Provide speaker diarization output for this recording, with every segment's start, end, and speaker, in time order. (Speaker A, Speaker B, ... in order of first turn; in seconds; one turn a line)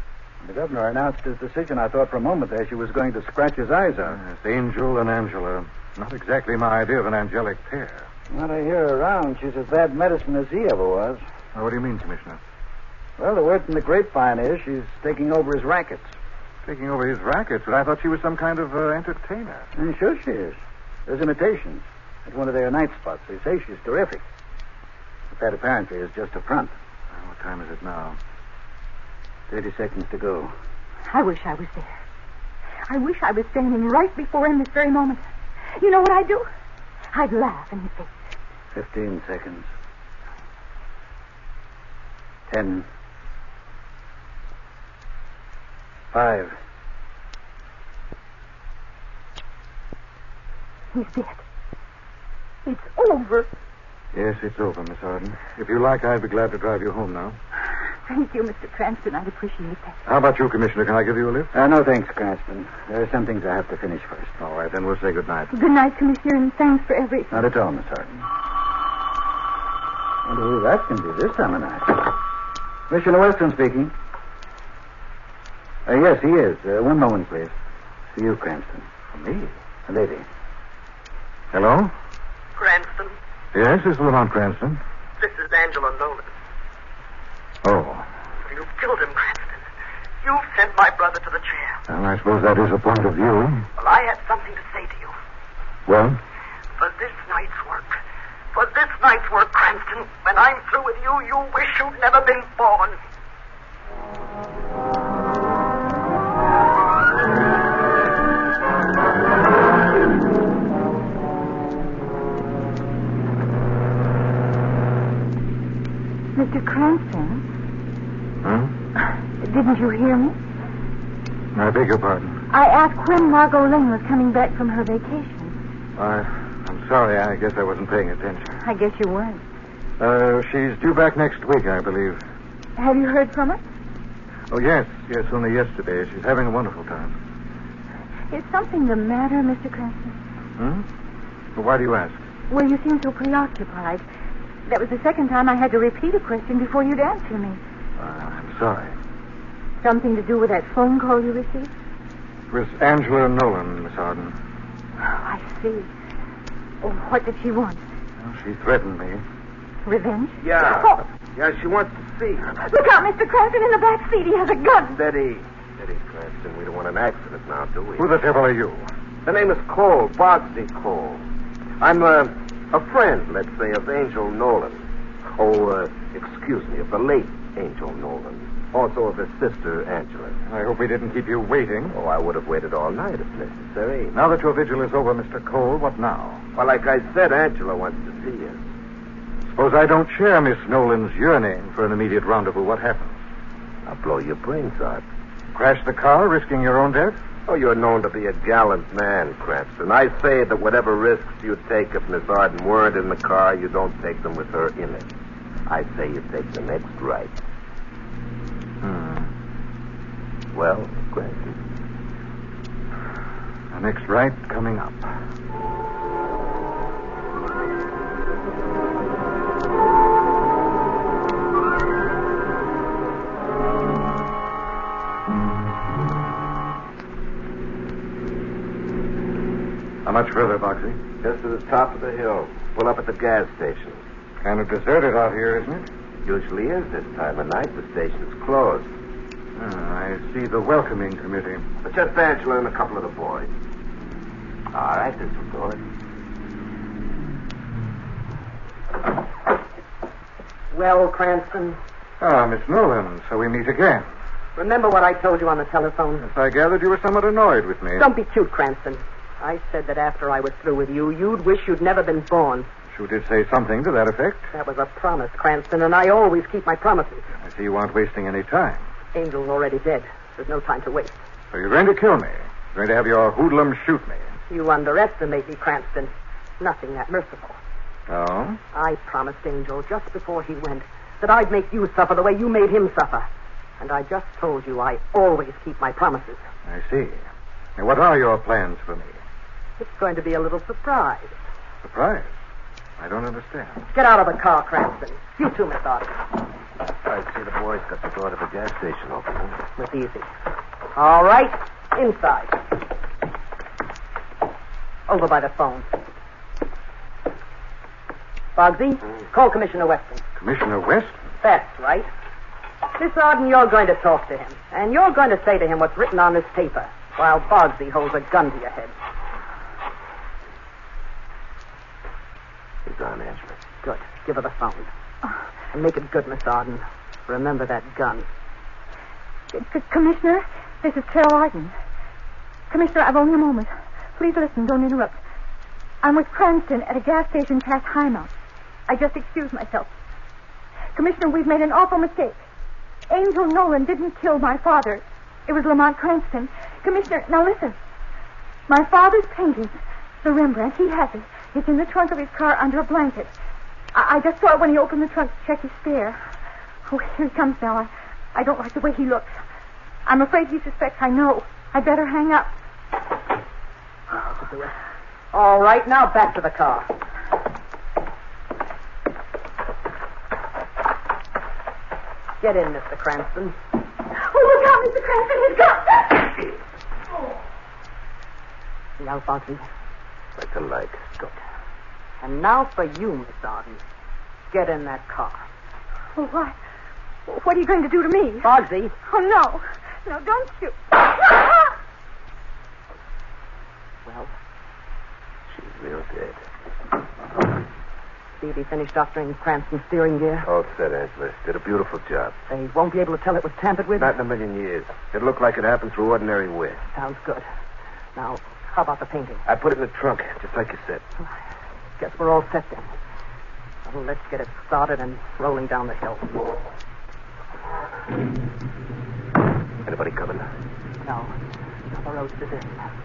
Speaker A: 0.4-4.2
Speaker B: 4.1-8.1
Speaker A: 8.3-11.2
Speaker B: 11.6-12.4
Speaker A: 13.2-16.1
Speaker B: 16.6-19.7
Speaker A: 19.8-24.2
Speaker A: 25.3-26.7
Speaker B: 27.1-28.2
Speaker A: 29.5-30.5
Speaker C: 31.1-32.0
Speaker C: 32.9-35.2
Speaker C: 35.8-36.5
Speaker C: 37.1-38.1
Speaker A: 38.7-39.7
Speaker A: 42.5-42.9
Speaker A: 46.1-46.6
Speaker C: 50.9-51.4
Speaker C: 52.6-53.5
Speaker B: 54.1-57.4
Speaker C: 58.1-60.0
Speaker B: 60.1-61.5
Speaker A: 61.5-64.3
Speaker B: 64.4-65.5
Speaker C: 65.5-67.4
Speaker A: 67.3-68.2
Speaker A: 70.2-72.2
Speaker A: 72.9-73.9
Speaker A: 75.9-77.5
Speaker A: 78.1-78.9
Speaker B: 79.1-79.5
Speaker A: 79.9-80.2
Speaker B: 81.5-81.9
Speaker D: 82.6-83.2
Speaker B: 83.5-84.8
Speaker D: 85.2-86.3
Speaker B: 87.6-88.0
Speaker D: 88.5-89.7
Speaker D: 90.2-91.8
Speaker B: 91.9-93.7
Speaker D: 93.8-95.1
Speaker B: 95.9-96.2
Speaker D: 96.8-98.0
Speaker D: 98.5-103.0
Speaker C: 116.3-117.5
Speaker B: 118.4-118.7
Speaker C: 119.4-120.4
Speaker B: 121.5-122.4
Speaker C: 122.5-125.6
Speaker B: 126.0-128.6
Speaker C: 128.6-129.4
Speaker B: 130.0-132.2
Speaker C: 132.8-133.6
Speaker B: 134.5-137.2
Speaker C: 138.3-140.2
Speaker B: 140.6-140.9
Speaker B: 141.6-142.2
Speaker C: 142.5-144.0
Speaker C: 144.7-147.6
Speaker B: 148.0-148.9
Speaker C: 149.8-151.7
Speaker B: 152.5-154.3
Speaker C: 155.0-155.9
Speaker C: 156.8-157.8
Speaker B: 158.2-159.2
Speaker C: 159.8-161.0
Speaker E: 160.4-162.5
Speaker C: 162.6-165.0
Speaker E: 164.9-168.1
Speaker B: 168.0-168.9
Speaker E: 169.2-171.2
Speaker E: 171.8-174.8
Speaker E: 175.4-180.4
Speaker B: 180.5-181.9
Speaker E: 181.9-184.2
Speaker B: 184.1-186.4
Speaker E: 186.6-188.6
Speaker B: 189.5-193.2
Speaker E: 193.9-195.0
Speaker B: 195.5-197.2
Speaker E: 197.5-205.1
Speaker E: 205.7-207.3
Speaker B: 208.8-209.3
Speaker E: 210.5-211.6
Speaker B: 213.7-215.1
Speaker B: 230.1-231.0
Speaker E: 231.2-234.0
Speaker B: 234.4-235.9
Speaker E: 236.2-238.9
Speaker B: 239.6-241.7
Speaker E: 241.8-243.5
Speaker E: 244.7-245.8
Speaker D: 250.7-251.8
Speaker B: 252.2-254.1
Speaker D: 254.6-256.3
Speaker B: 256.2-258.1
Speaker D: 258.0-262.7
Speaker B: 262.9-264.5
Speaker D: 264.5-267.3
Speaker B: 267.4-268.8
Speaker D: 269.1-271.2
Speaker B: 271.5-274.2
Speaker D: 274.5-277.6
Speaker B: 278.1-278.6
Speaker D: 278.7-283.3
Speaker D: 283.8-286.4
Speaker B: 286.7-287.2
Speaker B: 287.8-289.2
Speaker D: 289.8-291.3
Speaker B: 291.8-292.3
Speaker B: 293.0-293.9
Speaker D: 293.9-296.1
Speaker E: 297.1-299.6
Speaker D: 299.8-300.3
Speaker D: 300.9-302.6
Speaker D: 305.1-305.9
Speaker D: 308.6-310.2
Speaker B: 310.4-311.2
Speaker D: 311.4-312.1
Speaker D: 313.0-318.9
Speaker E: 322.9-323.6
Speaker D: 323.8-324.9
Speaker D: 325.7-328.3
Speaker C: 329.5-331.7
Speaker C: 332.7-335.2
Speaker C: 336.0-338.3
Speaker C: 338.9-339.9
Speaker C: 340.9-342.4
Speaker C: 343.1-347.8
Speaker C: 348.7-353.3
Speaker C: 353.9-356.2
Speaker C: 356.9-359.4
Speaker C: 360.1-362.5
Speaker D: 364.1-364.7
Speaker D: 365.3-366.9
Speaker D: 372.4-373.6
Speaker C: 374.2-376.3
Speaker D: 379.0-379.7
Speaker E: 380.4-381.4
Speaker D: 382.2-383.8
Speaker D: 384.5-385.4
Speaker C: 386.1-386.6
Speaker C: 387.3-388.5
Speaker D: 388.4-388.9
Speaker C: 389.0-391.5
Speaker D: 394.1-394.3
Speaker E: 395.5-396.4
Speaker D: 398.4-400.5
Speaker E: 400.4-402.4
Speaker D: 402.5-404.1
Speaker E: 404.0-406.8
Speaker D: 406.9-407.5
Speaker D: 408.2-409.4
Speaker E: 409.5-411.0
Speaker D: 412.0-412.9
Speaker D: 413.9-416.4
Speaker E: 419.8-420.5
Speaker D: 421.0-421.3
Speaker D: 421.9-422.9